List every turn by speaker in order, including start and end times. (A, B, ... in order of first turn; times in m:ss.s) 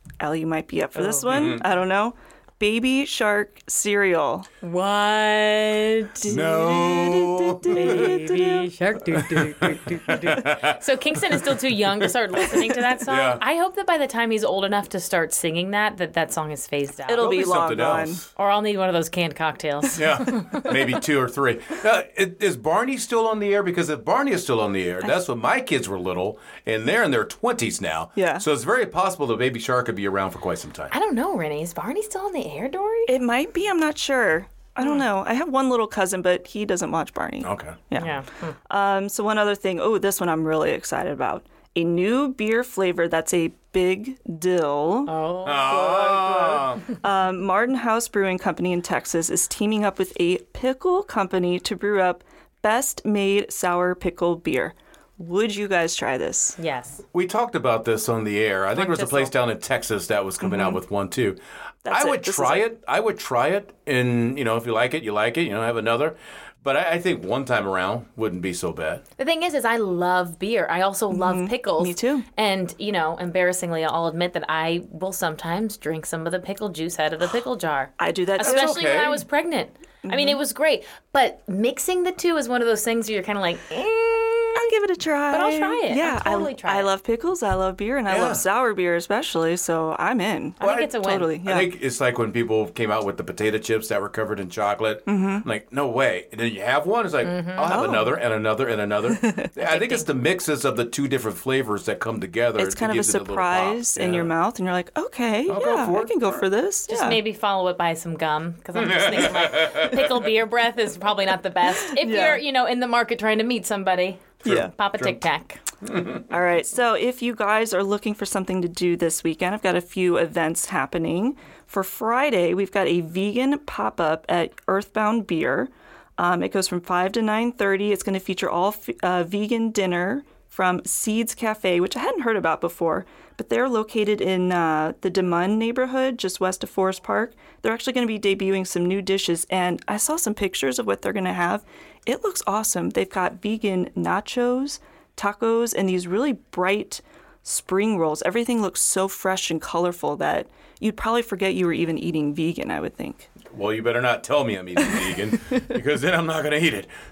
0:00.2-0:04.5 A
0:01.0-0:01.5 B
0:01.3-0:01.7 C
0:04.6-0:06.4 B
0:06.2-0:08.7 A
0:06.3-0:08.2 C
0:07.7-0:17.3 B
0:09.1-0:13.4 C
0:17.1-0:18.2 A
0:17.2-0:18.3 C
0:18.4-0:20.7 B
0:20.0-0:30.9 C
0:28.2-0:28.5 A
0:30.9-0:33.1 B
0:33.1-0:56.6 A
0:34.8-0:35.1 B
0:37.4-0:37.9 C
0:38.0-0:38.6 B
0:45.1-0:45.9 B
0:45.4-0:46.8 C
0:56.6-0:57.0 B
0:57.1-1:09.0 C
0:58.7-0:59.3 B
1:00.4-1:00.8 A
1:01.8-1:02.7 A
1:09.2-1:24.7 B
1:11.1-1:12.3 A
1:18.0-1:18.8 A
1:18.4-1:19.2 C
1:20.0-1:20.4 A
1:24.6-1:31.7 A
1:25.3-1:26.9 B
1:28.1-1:28.4 C
1:30.6-1:31.3 B
1:30.6-1:44.3 C
1:35.1-1:35.5 A
1:37.2-1:37.8 B
1:37.7-1:38.2 A
1:39.1-1:39.5 A
1:39.6-1:40.2 B
1:42.6-1:47.2 A
1:45.5-1:46.4 C
1:46.9-1:55.6 B
1:48.8-1:50.2 C
1:52.0-1:52.4 A
1:54.4-1:55.2 C
1:54.4-1:54.7 A
1:55.8-1:56.2 C
1:56.3-2:33.3 A
2:33.5-2:36.9 C